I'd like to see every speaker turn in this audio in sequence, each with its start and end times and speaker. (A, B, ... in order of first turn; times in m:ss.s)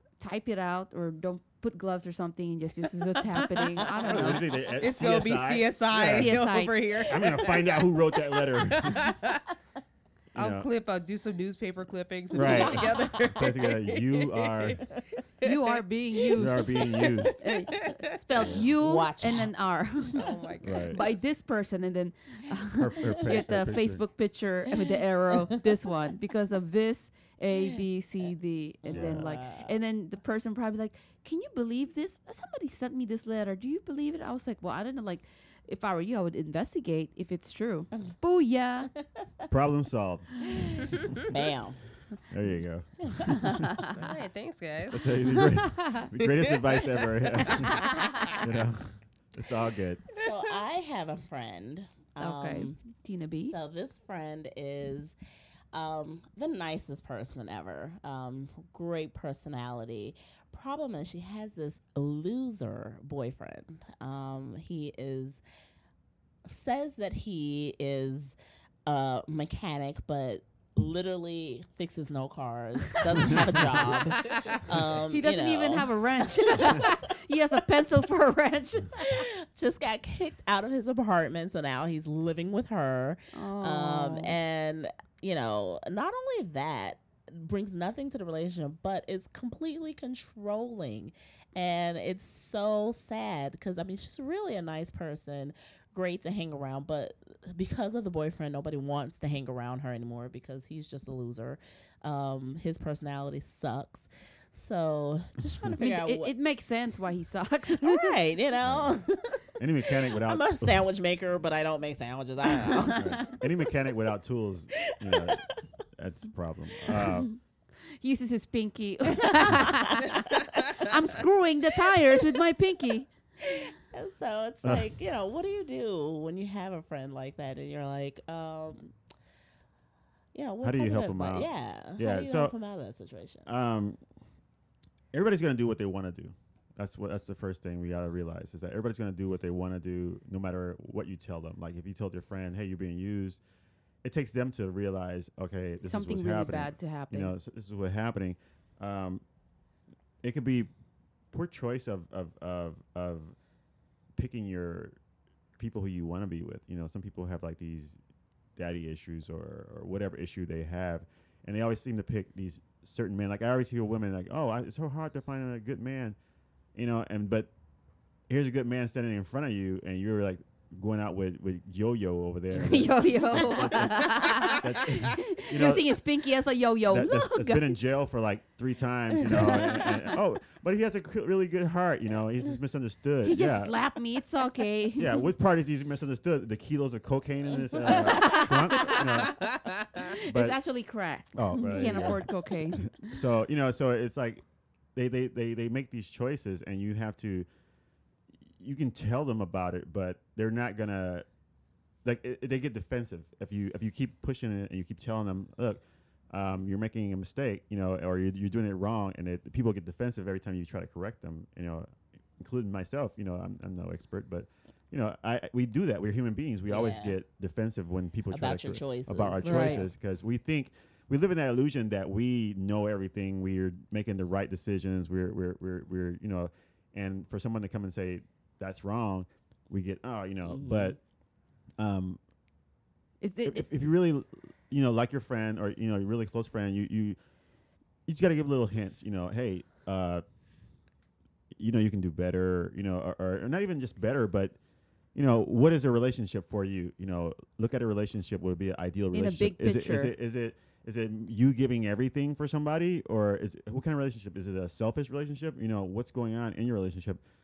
0:00.2-0:04.5 A
0:04.0-0:06.4 B
0:04.8-0:09.4 C
0:06.1-0:06.8 A
0:07.0-0:09.1 B
0:10.3-0:10.7 B
0:10.4-0:14.8 C
0:12.3-0:14.8 B
0:12.5-0:13.2 D
0:15.4-0:15.8 C
0:15.4-0:20.4 A
0:16.3-0:17.4 B
0:16.8-0:18.0 C
0:18.4-0:18.7 B
0:18.4-0:19.5 D
0:20.1-0:21.2 C
0:20.6-0:21.0 B
0:20.9-0:38.9 A
0:22.8-0:24.0 B
0:24.9-0:25.4 D
0:28.8-0:29.7 D
0:28.9-0:29.3 B
0:39.5-0:41.0 B
0:40.5-0:41.8 D
0:42.3-0:43.9 B
0:43.1-0:43.4 D
0:43.4-0:43.9 A
0:43.9-0:45.1 C
0:44.9-0:50.0 B
0:45.2-0:46.1 A
0:46.2-0:47.0 C
0:47.4-0:48.4 D
0:50.2-0:52.8 D
0:52.2-0:53.5 A
0:53.5-0:55.1 D
0:55.7-1:05.4 D
1:06.5-1:17.0 D
1:13.2-1:13.8 B
1:13.7-1:19.2 A
1:19.0-1:46.3 D
1:23.3-1:24.4 A
1:45.8-1:48.1 A
1:47.8-1:53.4 D
1:48.6-1:49.0 B
1:49.6-1:50.8 B
1:52.6-1:52.9 A
1:52.9-1:55.4 B
1:55.0-1:55.6 D
1:56.0-1:57.3 B
1:57.0-1:57.4 A
1:58.0-2:03.1 A
1:59.1-2:01.2 D
2:01.8-2:02.4 D
2:03.4-2:08.9 D
2:04.6-2:04.9 B
2:10.3-2:13.4 D
2:10.6-2:12.5 B
2:13.4-2:14.0 B
2:15.1-2:23.4 B
2:24.0-2:29.2 B
2:25.8-2:27.3 A
2:30.2-2:30.7 B
2:31.3-2:33.3 B
2:34.1-2:35.0 B
2:35.6-2:38.0 B
2:38.6-2:46.2 B
2:46.7-2:47.5 B
2:48.3-2:56.0 B
2:52.5-2:57.8 A
2:56.9-3:03.8 B
2:59.3-3:00.1 A
2:59.4-2:59.6 D
3:03.2-3:05.3 A
3:05.0-3:09.5 B
3:07.8-3:08.5 D
3:07.8-3:09.3 A
3:09.2-3:10.1 C
3:10.0-3:13.2 A
3:10.3-3:10.6 B
3:11.3-3:14.4 B
3:11.7-3:12.2 D
3:14.9-3:17.5 B
3:18.6-3:21.2 B
3:22.0-3:51.0 B
3:36.7-3:37.2 D
3:38.3-3:39.9 D
3:39.4-3:39.8 A
3:50.4-3:51.0 D
3:51.8-3:52.2 B
3:53.2-3:53.7 A
3:53.4-3:57.2 B
3:58.1-4:00.2 B
4:01.6-4:04.5 B
4:05.1-4:17.2 B
4:09.1-4:10.1 A